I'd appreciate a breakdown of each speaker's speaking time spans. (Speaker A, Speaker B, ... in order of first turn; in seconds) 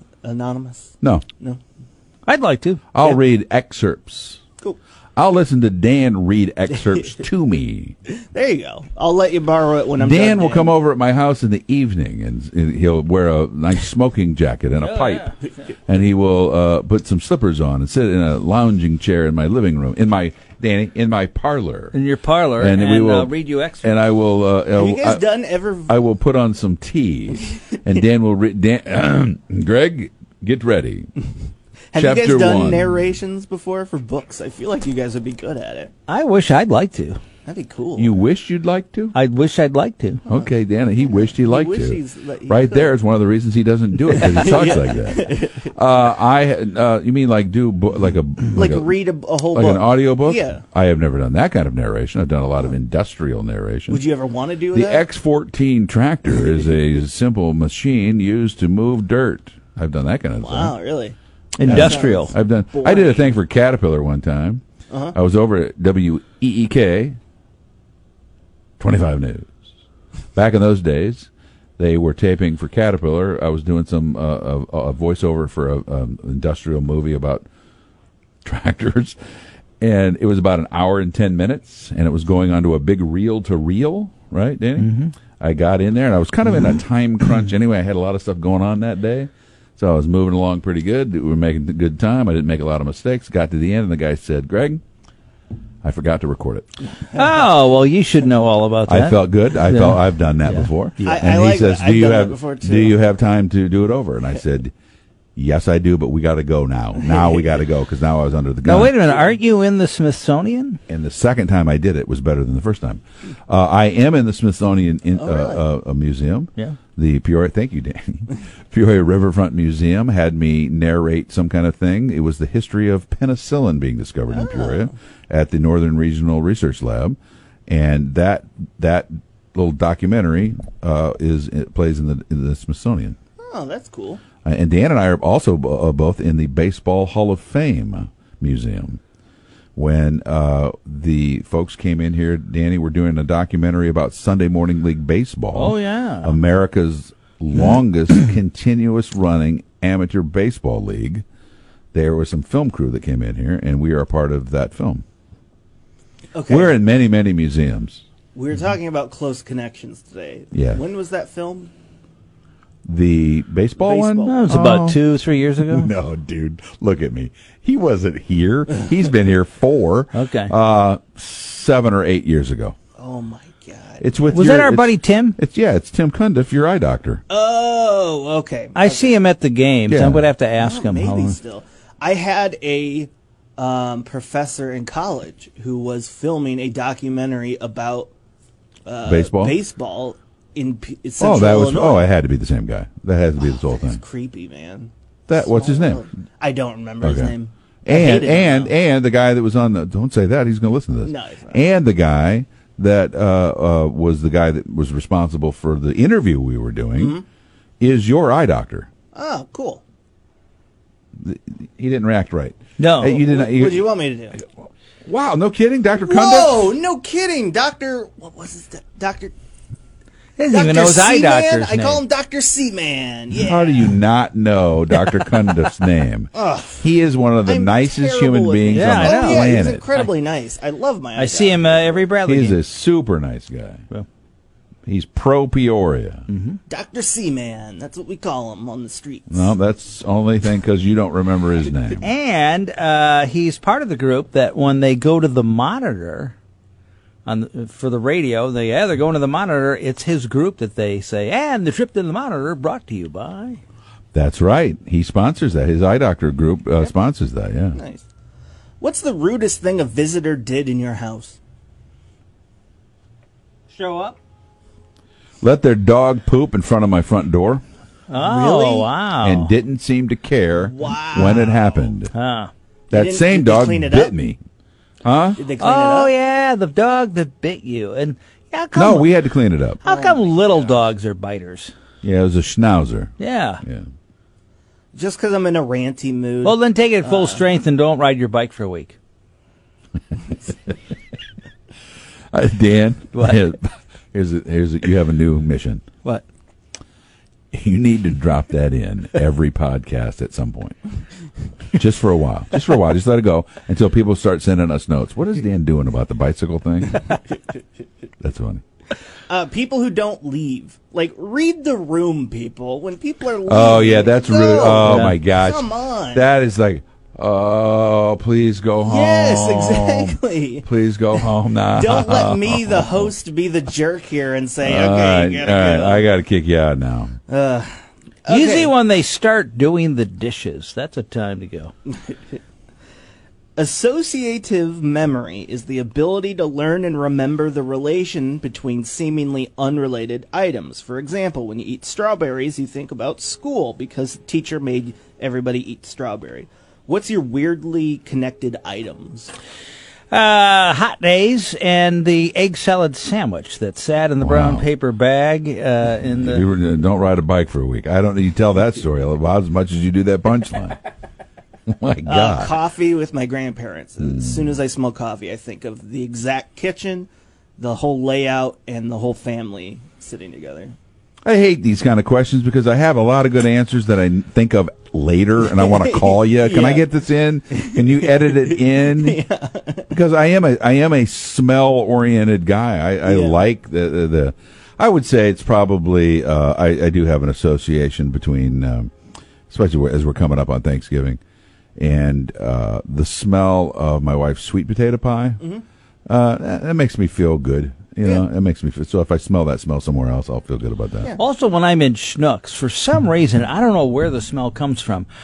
Speaker A: 0.2-1.6, 8.1-10.8, 24.7-25.9, 27.3-28.1, 31.9-35.9, 37.5-38.2, 41.1-43.0, 44.1-45.7, 48.5-50.6, 53.9-55.1, 60.4-63.4, 64.9-65.2, 101.0-103.0, 107.1-107.4, 115.2-115.6, 124.3-124.9, 133.4-134.2, 156.3-156.8, 158.3-161.7, 163.8-164.5, 173.0-174.4, 177.3-179.2, 180.6-188.1, 188.9-192.1, 193.4-198.7, 201.0-201.6, 206.9-207.2, 209.1-209.8, 213.0-214.4, 216.0-219.3, 220.5-224.0, 226.3-226.8, 227.4-232.1, 236.7-239.5, 257.7-258.0, 258.8-261.4, 268.2-268.9, 270.6-271.9, 272.9-274.1, 275.4-276.1, 279.8-280.8, 284.9-287.4, 309.3-316.3, 318.8-326.1, 327.3-327.7, 328.3-328.7, 333.6-349.3, 362.1-370.8, 375.5-376.9, 377.6-379.9, 383.0-383.4
Speaker B: 2.3-3.2, 14.8-15.3, 21.9-23.9, 36.1-37.2, 39.1-40.2, 61.6-62.3, 84.8-85.1, 97.1-101.2, 108.6-110.8, 145.5-146.4, 164.3-165.9, 170.1-170.5, 174.3-175.4, 178.8-181.4, 212.8-213.2, 220.4-222.0, 228.7-230.1, 231.2-232.6, 236.3-236.6, 242.0-246.3, 247.3-253.6, 263.7-264.2, 268.1-269.5, 272.1-272.5, 275.6-279.1, 279.8-281.7, 283.2-283.6, 286.4-289.0, 293.1-293.4, 314.7-315.2, 328.3-331.7, 350.1-356.4, 401.2-405.1
Speaker C: 2.9-4.4, 5.2-7.9, 10.0-15.3, 15.9-21.9, 22.6-25.2, 25.9-31.1, 31.9-32.9, 38.0-39.1, 40.3-48.9, 49.5-54.0, 54.7-60.7, 61.6-64.6, 65.1-67.2, 68.8-69.5, 70.3-77.5, 78.5-79.2, 79.8-94.8, 95.8-96.7, 98.9-104.7, 105.4-109.0, 110.9-133.2, 134.4-139.0, 139.8-151.2, 151.9-155.0, 156.5-158.0, 160.5-160.8, 162.9-165.0, 165.7-172.8, 174.0-177.2, 179.9-180.3, 189.1-189.6, 191.2-194.0, 195.3-196.1, 197.0-207.2, 207.8-208.9, 211.2-216.7, 223.4-229.8, 232.2-233.8, 234.9-236.3, 239.3-242.1, 254.1-257.8, 265.4-267.6, 269.2-272.1, 272.9-274.4, 275.0-275.4, 278.8-279.8, 282.0-283.9, 292.3-295.8, 297.5-300.8, 301.7-307.1, 308.2-308.6, 313.5-323.1, 324.6-327.2, 354.2-354.6, 356.1-360.8, 361.7-362.5, 364.0-364.4, 371.2-379.2, 379.9-388.9, 389.5-391.2, 391.8-395.4, 396.1-401.1